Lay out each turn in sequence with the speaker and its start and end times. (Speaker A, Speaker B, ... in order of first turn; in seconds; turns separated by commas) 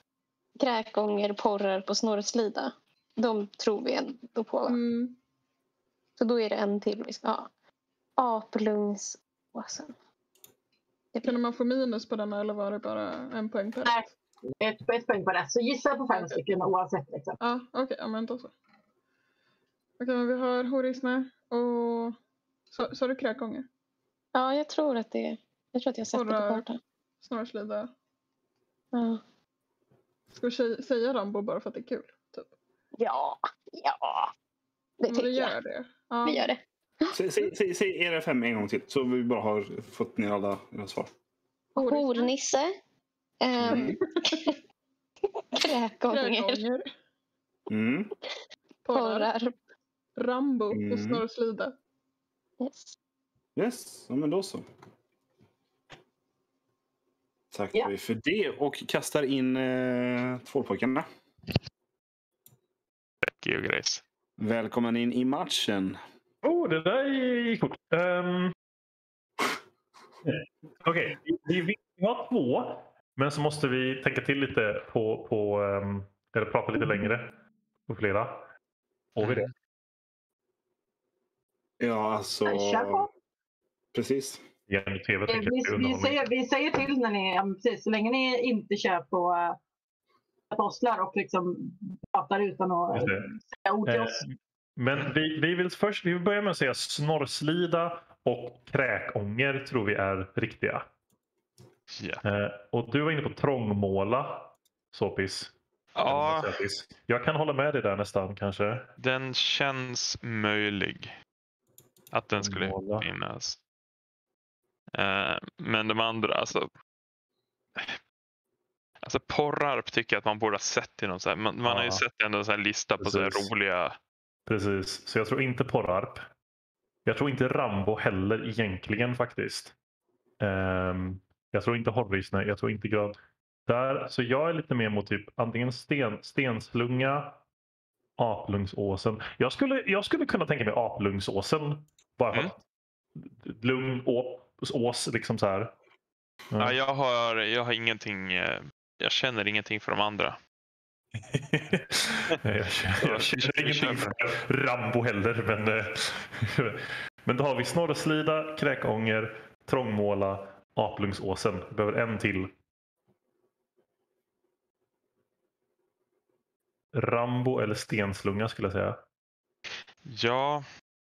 Speaker A: 0.6-4.8, Speaker B: 4.7-5.2, Speaker A: 6.2-7.5, Speaker A: 8.2-9.9, Speaker B: 11.2-14.0, Speaker C: 14.6-17.4, Speaker B: 16.1-16.4, Speaker B: 17.4-18.5, Speaker B: 20.0-22.2, Speaker B: 22.7-23.7, Speaker A: 24.4-26.8, Speaker B: 26.1-26.6, Speaker B: 27.2-27.9, Speaker A: 28.9-29.2, Speaker B: 30.4-32.5, Speaker A: 33.0-34.3, Speaker A: 35.0-35.5, Speaker B: 35.1-36.5, Speaker A: 36.2-37.2, Speaker D: 37.1-41.1, Speaker A: 41.8-42.8, Speaker B: 41.8-42.3, Speaker A: 43.4-44.5, Speaker D: 43.6-44.0, Speaker B: 43.7-44.4, Speaker A: 45.5-46.6, Speaker B: 46.1-46.9, Speaker D: 47.7-48.1, Speaker B: 48.9-49.3, Speaker A: 48.9-49.5, Speaker B: 50.2-51.8, Speaker D: 50.7-51.2, Speaker A: 52.6-53.0, Speaker D: 53.6-54.7, Speaker D: 57.5-61.1, Speaker E: 63.2-64.0, Speaker D: 64.4-66.0, Speaker F: 66.4-68.5, Speaker F: 70.3-77.3, Speaker F: 77.9-78.5, Speaker F: 79.2-79.5, Speaker D: 81.8-83.1, Speaker C: 82.5-83.1, Speaker D: 83.9-84.4, Speaker F: 84.7-86.2, Speaker C: 85.3-89.6, Speaker C: 90.5-94.2, Speaker F: 92.9-93.2, Speaker F: 93.9-100.8, Speaker E: 101.9-102.2, Speaker F: 102.2-105.5, Speaker E: 106.0-106.6, Speaker F: 106.0-108.9, Speaker E: 109.0-111.1, Speaker E: 112.1-113.6, Speaker F: 112.4-113.1, Speaker E: 115.0-116.7, Speaker E: 119.0-124.0, Speaker F: 121.7-122.0, Speaker F: 123.0-123.5, Speaker F: 124.5-126.2, Speaker F: 127.1-129.7, Speaker F: 130.4-137.4, Speaker F: 138.2-142.6, Speaker F: 143.2-145.7, Speaker F: 146.5-146.8, Speaker E: 146.6-150.4, Speaker F: 151.3-162.5, Speaker E: 153.0-154.1, Speaker F: 166.9-169.0, Speaker E: 170.1-170.7